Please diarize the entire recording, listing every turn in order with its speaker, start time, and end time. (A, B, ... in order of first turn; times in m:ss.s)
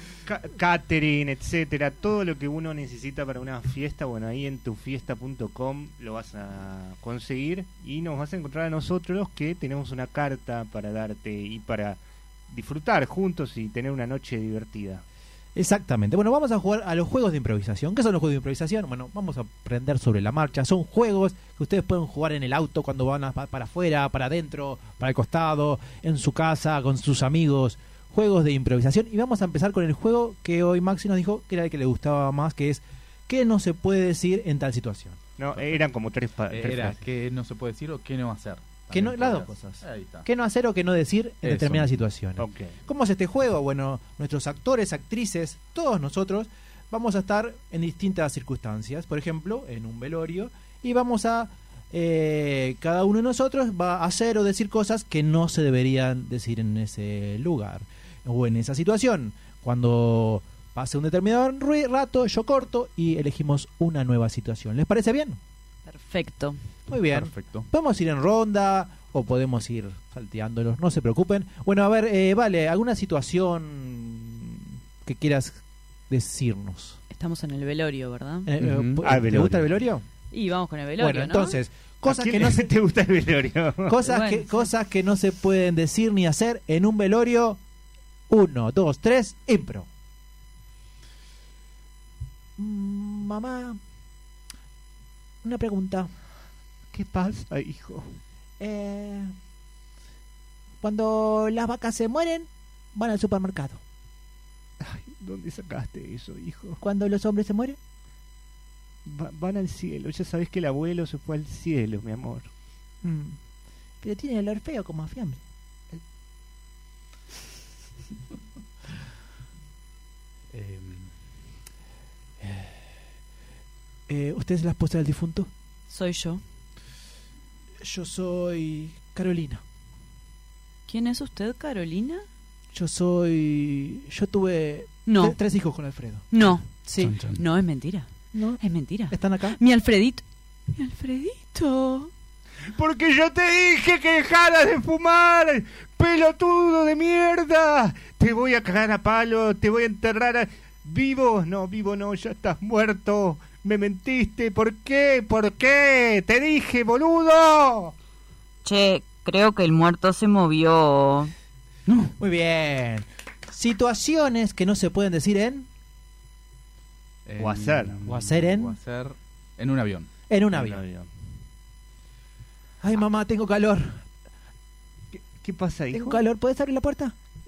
0:00.3-0:15.0 A
0:15.6-0:35.2 B
0:35.4-0:37.0 A
0:36.5-0:40.3 C
0:38.9-1:05.4 B
0:41.4-0:42.0 C
0:42.4-0:42.7 A
1:05.9-1:06.6 D
1:06.9-1:17.0 B
1:07.1-1:07.7 C
1:17.1-1:18.5 D
1:18.4-1:20.0 B
1:18.7-1:19.0 C
1:18.7-1:19.8 A
1:20.3-1:21.6 D
1:21.0-1:22.7 B
1:22.0-1:24.0 A
1:23.9-1:27.6 B
1:24.0-1:24.7 D
1:28.3-1:29.9 B
1:32.6-1:33.8 B
1:35.4-1:36.1 B
1:36.9-1:38.2 A
1:38.6-1:39.3 B
1:40.8-1:43.8 B
1:44.8-1:46.8 A
1:46.8-1:47.8 B
1:49.0-1:52.5 A
1:53.0-1:53.4 B
1:54.0-1:55.4 B
2:00.5-2:01.1 C
2:02.4-2:02.7 C
2:04.1-2:05.5 B
2:05.9-2:06.4 D
2:07.8-2:09.6 B
2:10.9-2:12.3 D
2:12.7-2:17.2 B
2:15.1-2:15.4 D
2:16.3-2:22.1 D
2:17.0-2:17.4 C
2:18.3-2:19.6 B
2:22.7-2:37.9 A
2:38.6-2:41.3 D
2:41.9-2:42.1 C
2:42.2-2:45.7 B
2:47.3-2:50.1 C
2:47.4-2:48.1 A
2:48.1-2:48.8 B
2:50.3-2:50.8 B
2:50.5-2:51.1 A
2:52.8-2:54.1 B
2:55.2-2:56.2 A
2:55.9-2:57.2 B